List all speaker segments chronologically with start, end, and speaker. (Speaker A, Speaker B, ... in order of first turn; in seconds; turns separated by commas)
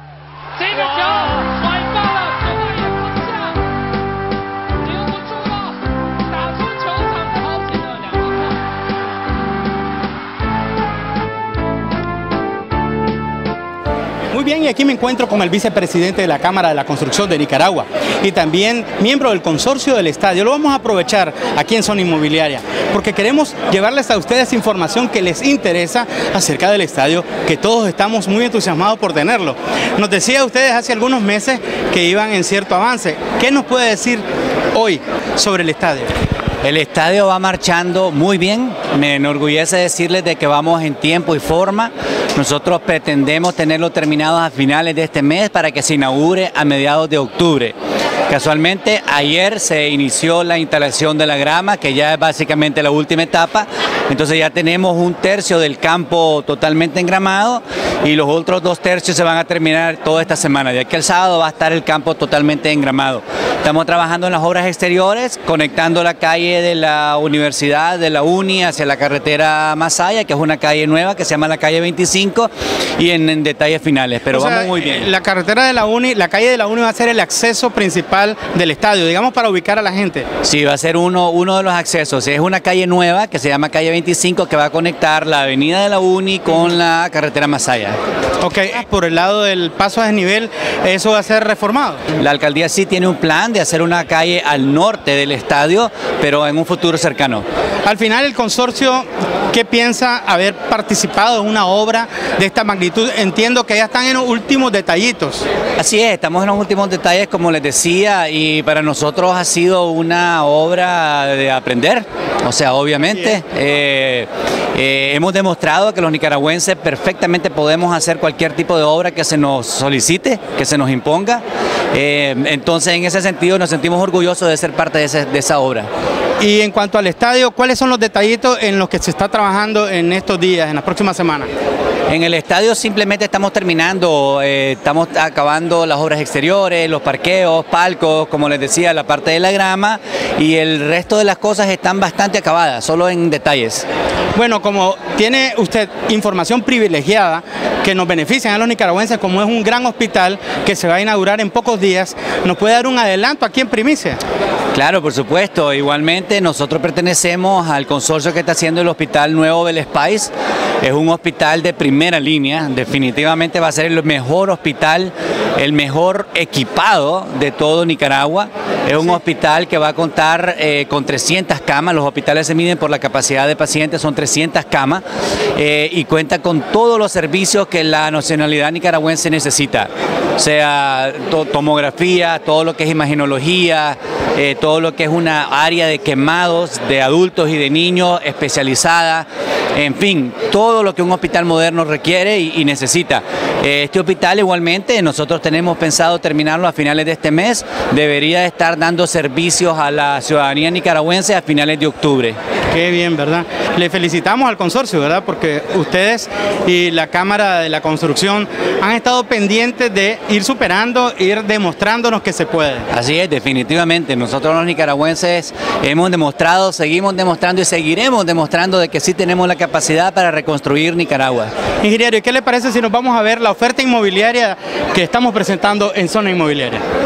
Speaker A: 0.5-3.7, Speaker A: 4.8-8.6, Speaker B: 14.3-36.1, Speaker C: 36.6-47.7, Speaker C: 48.3-75.1, Speaker B: 74.3-80.2, Speaker C: 80.4-88.0, Speaker B: 88.4-92.0, Speaker C: 92.2-97.4, Speaker B: 97.8-105.4, Speaker C: 105.8-125.9, Speaker B: 126.4-131.5, Speaker C: 132.1-143.8, Speaker B: 144.3-154.2, Speaker C: 154.7-175.0, Speaker C: 175.6-202.4, Speaker B: 202.7-212.9, Speaker C: 212.9-221.5, Speaker B: 221.8-226.8